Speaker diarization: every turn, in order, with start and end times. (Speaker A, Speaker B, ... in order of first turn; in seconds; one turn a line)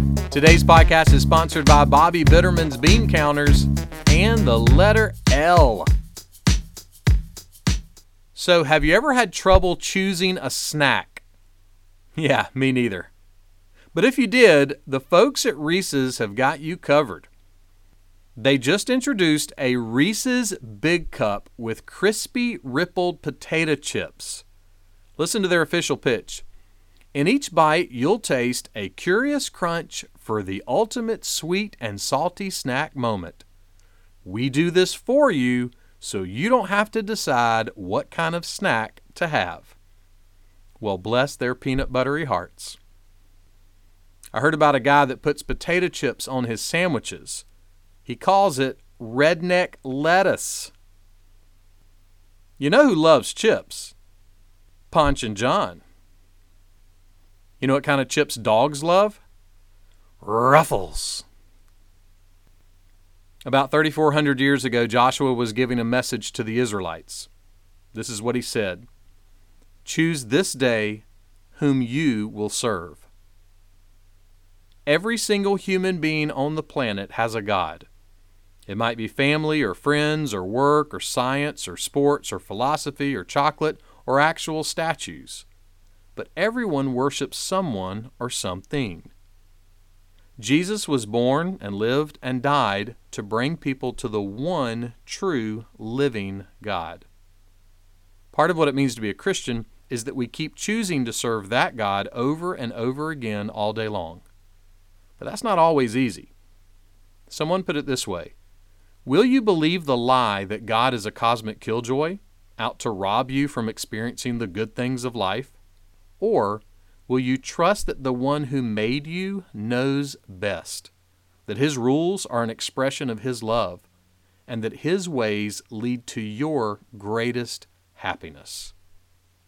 Speaker A: 0.3-5.9
Speaker A: 8.3-11.2
Speaker A: 12.2-13.1
Speaker A: 13.9-17.3
Speaker A: 18.4-24.4
Speaker A: 25.2-26.4
Speaker A: 27.1-33.4
Speaker A: 34.2-39.7
Speaker A: 40.8-42.8
Speaker A: 44.3-47.4
Speaker A: 48.0-50.7
Speaker A: 52.6-53.9
Speaker A: 54.9-55.8
Speaker A: 57.6-59.2
Speaker A: 60.2-61.2
Speaker A: 63.5-67.3
Speaker A: 67.9-68.8
Speaker A: 69.8-73.1
Speaker A: 74.8-77.9
Speaker A: 78.7-85.5
Speaker A: 86.1-89.1
Speaker A: 90.4-97.1
Speaker A: 98.3-104.2
Speaker A: 105.2-106.3
Speaker A: 107.3-108.3
Speaker A: 109.0-115.6
Speaker A: 116.2-120.9
Speaker A: 121.5-123.9
Speaker A: 124.5-128.7